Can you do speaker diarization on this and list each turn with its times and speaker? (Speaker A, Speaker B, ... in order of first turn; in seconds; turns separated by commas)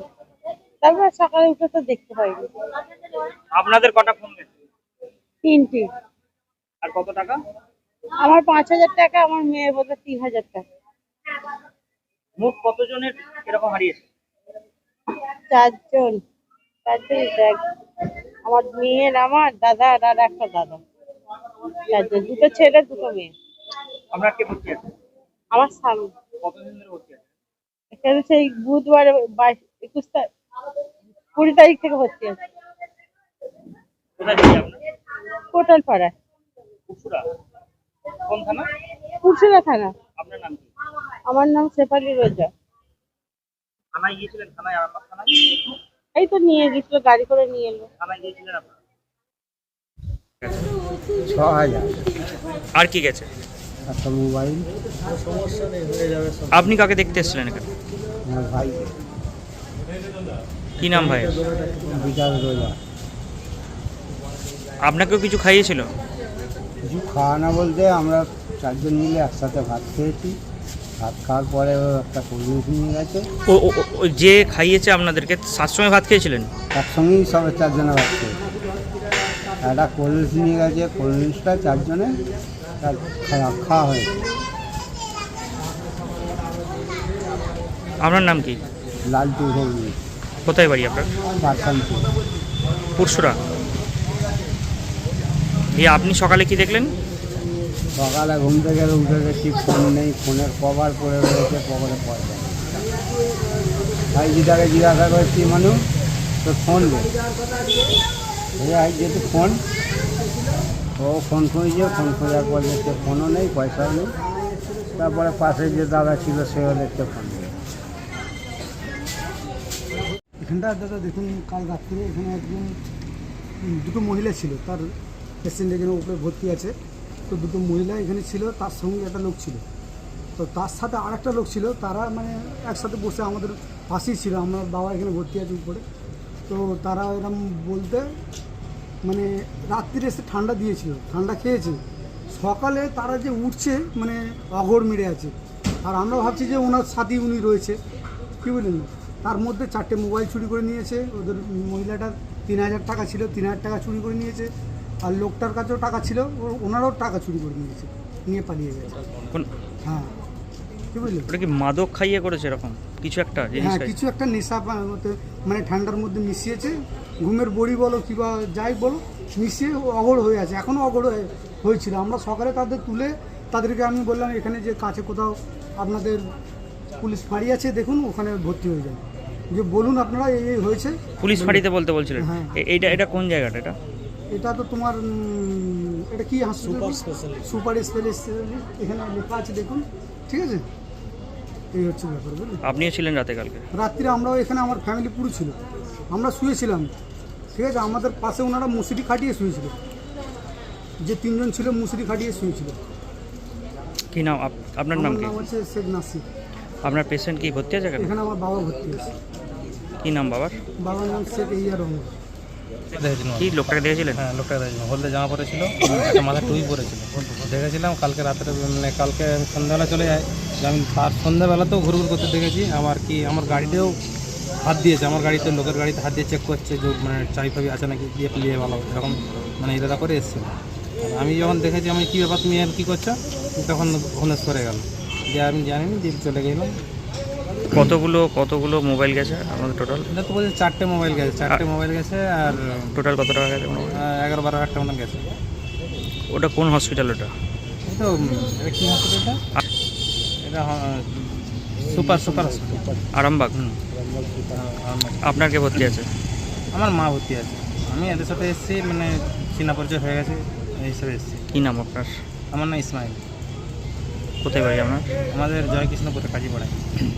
Speaker A: 0.8-2.4, Speaker B: 3.6-4.4, Speaker A: 5.4-5.9, Speaker B: 6.8-7.3, Speaker A: 8.2-10.6, Speaker B: 12.4-13.9, Speaker A: 15.5-16.2, Speaker A: 16.9-17.6, Speaker A: 18.5-20.8, Speaker A: 21.9-23.3, Speaker B: 24.1-24.8, Speaker A: 25.5-26.1, Speaker B: 26.5-27.0, Speaker A: 27.9-30.2, Speaker A: 31.4-32.4, Speaker B: 34.2-34.7, Speaker A: 35.5-36.1, Speaker B: 36.9-37.1, Speaker A: 39.2-39.9, Speaker B: 40.2-40.6, Speaker A: 41.2-42.5, Speaker B: 44.0-45.3, Speaker A: 46.1-47.9, Speaker B: 48.0-48.5, Speaker C: 51.2-52.0, Speaker B: 52.7-53.3, Speaker C: 53.9-54.7, Speaker B: 56.5-57.7, Speaker C: 58.2-58.9, Speaker B: 60.8-61.4, Speaker C: 61.9-62.8, Speaker B: 64.8-65.9, Speaker C: 66.8-70.4, Speaker C: 71.0-73.3, Speaker B: 73.5-76.5, Speaker C: 76.7-78.4, Speaker C: 79.6-82.2, Speaker C: 82.8-84.1, Speaker B: 88.0-88.6, Speaker C: 89.1-90.0, Speaker B: 90.5-91.1, Speaker C: 91.3-92.1, Speaker B: 93.0-93.4, Speaker B: 95.7-96.9, Speaker C: 98.0-102.7, Speaker C: 104.1-105.8, Speaker C: 106.4-107.1, Speaker C: 108.5-109.6, Speaker C: 111.0-114.1, Speaker C: 115.0-117.5, Speaker D: 120.4-122.8, Speaker D: 123.6-126.7, Speaker D: 127.3-129.6, Speaker D: 130.4-135.8, Speaker D: 136.5-138.1, Speaker D: 139.0-141.8, Speaker D: 142.3-147.8, Speaker D: 148.4-154.5, Speaker D: 155.0-159.0, Speaker D: 159.8-160.1, Speaker D: 160.9-161.3, Speaker B: 161.3-163.9, Speaker D: 163.6-176.2, Speaker D: 177.0-181.7, Speaker B: 181.2-183.8, Speaker D: 182.2-182.9, Speaker D: 184.3-190.7, Speaker D: 191.7-192.6, Speaker B: 192.6-193.6, Speaker D: 193.7-195.6, Speaker D: 196.1-196.9, Speaker D: 197.5-199.7, Speaker D: 201.0-202.8, Speaker B: 204.1-205.4, Speaker D: 204.9-206.2, Speaker B: 206.8-208.1, Speaker D: 208.0-209.1, Speaker B: 210.0-210.6, Speaker D: 210.8-212.1, Speaker E: 212.9-213.6, Speaker B: 213.4-214.2, Speaker E: 214.2-223.9, Speaker E: 224.6-230.5, Speaker E: 231.0-236.7, Speaker B: 237.7-240.0, Speaker E: 240.1-243.0, Speaker B: 242.9-243.9, Speaker E: 243.9-245.3, Speaker B: 246.3-247.3, Speaker E: 247.8-249.4, Speaker E: 250.4-253.0, Speaker B: 253.1-253.7, Speaker E: 254.5-255.2, Speaker B: 255.2-256.1, Speaker E: 256.7-261.4, Speaker B: 261.5-262.1, Speaker E: 262.5-263.2, Speaker B: 264.4-265.1, Speaker E: 265.3-266.8